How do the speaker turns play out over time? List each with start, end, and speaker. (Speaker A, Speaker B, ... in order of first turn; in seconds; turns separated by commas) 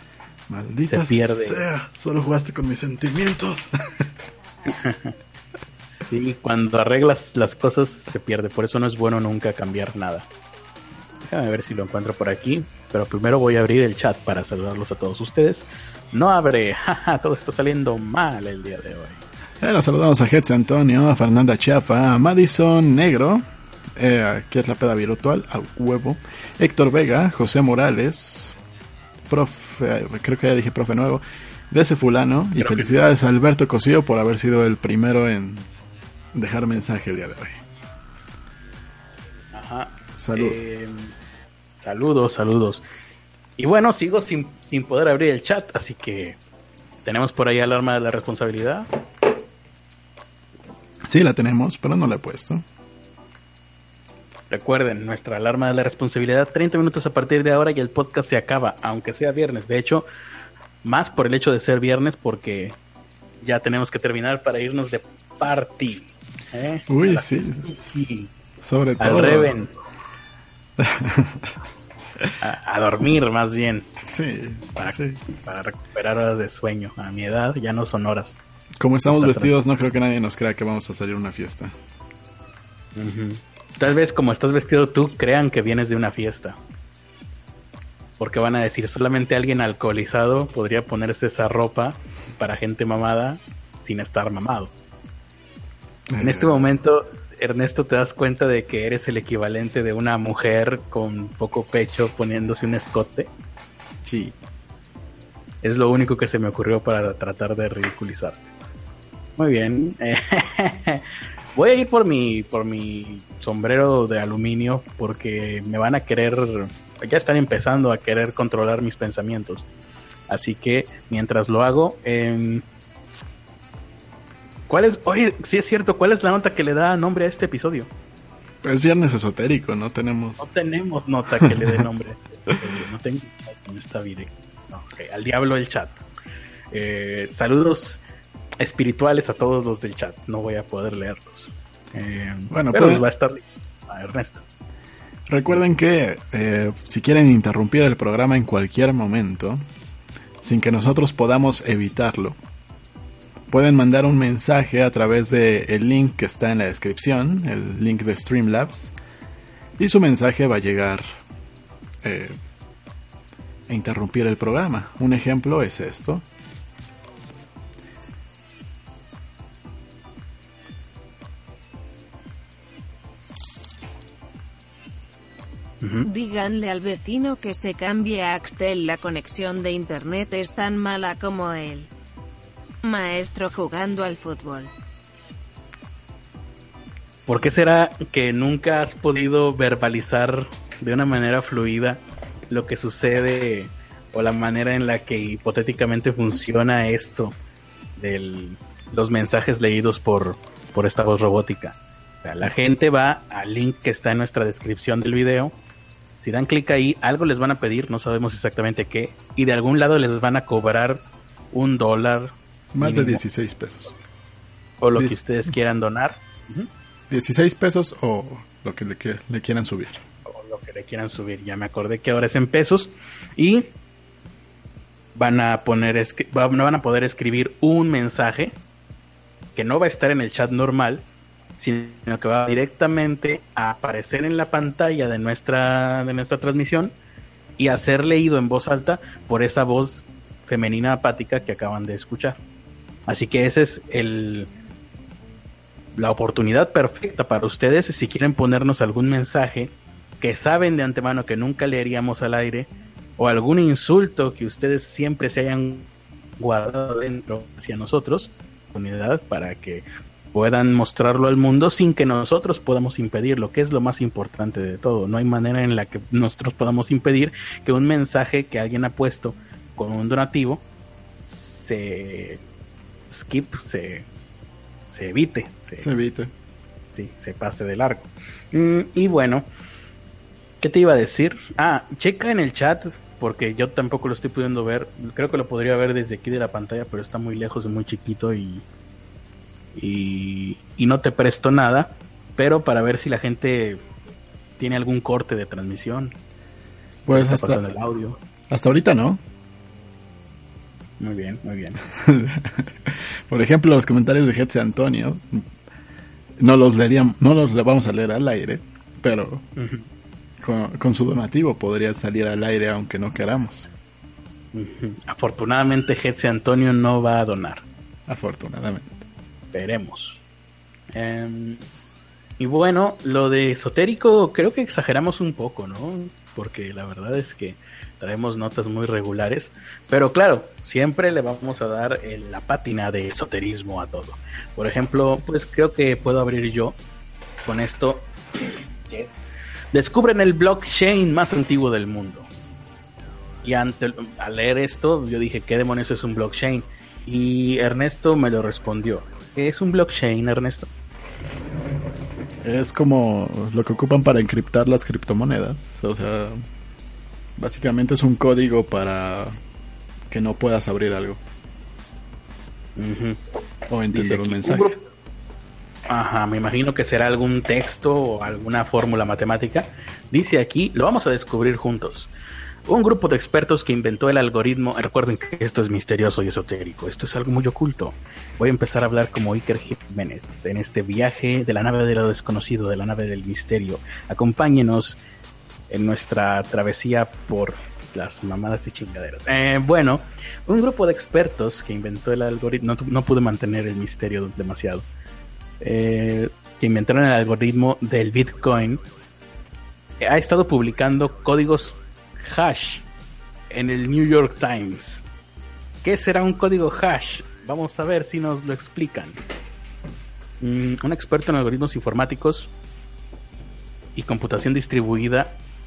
Speaker A: 0.5-4.1, Speaker B: 0.9-1.6, Speaker B: 4.7-5.1, Speaker B: 5.9-10.2, Speaker B: 11.2-19.2, Speaker A: 19.6-23.4, Speaker A: 23.9-28.5, Speaker A: 29.3-35.7, Speaker B: 32.6-33.0, Speaker A: 36.3-37.6, Speaker B: 39.5-41.1, Speaker A: 40.2-40.6, Speaker B: 41.8-42.8, Speaker B: 43.6-46.4, Speaker B: 47.0-48.9, Speaker A: 51.0-52.6, Speaker B: 54.5-60.0, Speaker B: 60.8-62.8, Speaker B: 63.4-68.3, Speaker A: 66.9-68.0, Speaker A: 68.6-69.5, Speaker B: 69.0-69.7, Speaker A: 70.8-71.6, Speaker B: 72.4-73.9, Speaker A: 74.0-75.2, Speaker B: 74.7-78.4, Speaker A: 78.8-81.8, Speaker B: 79.1-79.5, Speaker B: 83.0-86.6, Speaker B: 88.2-94.7, Speaker A: 96.1-96.6, Speaker B: 96.2-103.3, Speaker A: 104.0-104.3, Speaker B: 105.6-108.4, Speaker B: 109.4-119.7, Speaker B: 120.3-122.6, Speaker B: 124.7-127.9, Speaker A: 128.6-130.5, Speaker B: 130.4-136.0, Speaker A: 131.4-131.8, Speaker B: 136.7-138.0, Speaker B: 138.6-144.4, Speaker A: 142.5-143.0, Speaker A: 145.3-149.6, Speaker A: 150.4-152.4, Speaker A: 153.5-158.9, Speaker A: 159.8-161.2, Speaker A: 162.0-162.4, Speaker A: 163.7-166.2, Speaker B: 175.8-176.1, Speaker C: 176.1-181.9, Speaker C: 182.8-184.7, Speaker B: 187.3-197.3, Speaker B: 198.0-205.6, Speaker B: 206.2-213.2, Speaker A: 212.7-213.9, Speaker B: 214.8-216.7, Speaker A: 217.1-220.0, Speaker B: 220.2-223.7, Speaker B: 225.1-228.5, Speaker B: 229.6-231.0, Speaker B: 231.6-236.9, Speaker B: 237.6-242.4, Speaker B: 243.1-244.5, Speaker B: 245.9-270.6, Speaker B: 271.3-272.4, Speaker B: 273.1-274.1, Speaker B: 274.9-275.9, Speaker A: 275.8-276.3, Speaker B: 276.9-279.4, Speaker B: 280.6-288.6, Speaker B: 289.7-293.8, Speaker B: 294.6-296.1, Speaker A: 297.1-297.6, Speaker B: 297.1-298.2, Speaker A: 298.5-299.2, Speaker B: 301.0-301.8, Speaker A: 301.9-305.5, Speaker A: 306.4-309.4, Speaker B: 309.6-309.9, Speaker A: 310.4-313.7, Speaker B: 314.5-317.6, Speaker A: 318.1-318.9, Speaker B: 319.5-320.2, Speaker B: 320.9-321.6, Speaker B: 322.4-336.8, Speaker B: 337.4-339.2, Speaker B: 339.7-342.3, Speaker B: 343.4-350.7, Speaker A: 352.4-356.4, Speaker A: 357.4-359.4, Speaker A: 360.1-361.2, Speaker B: 362.8-363.2, Speaker A: 363.7-364.7, Speaker B: 363.9-364.8, Speaker B: 365.9-372.1, Speaker B: 372.7-385.0, Speaker B: 385.7-394.9, Speaker B: 395.6-398.8, Speaker B: 400.0-402.9, Speaker B: 403.5-405.0, Speaker B: 405.8-409.2, Speaker B: 410.4-412.5, Speaker B: 413.9-415.4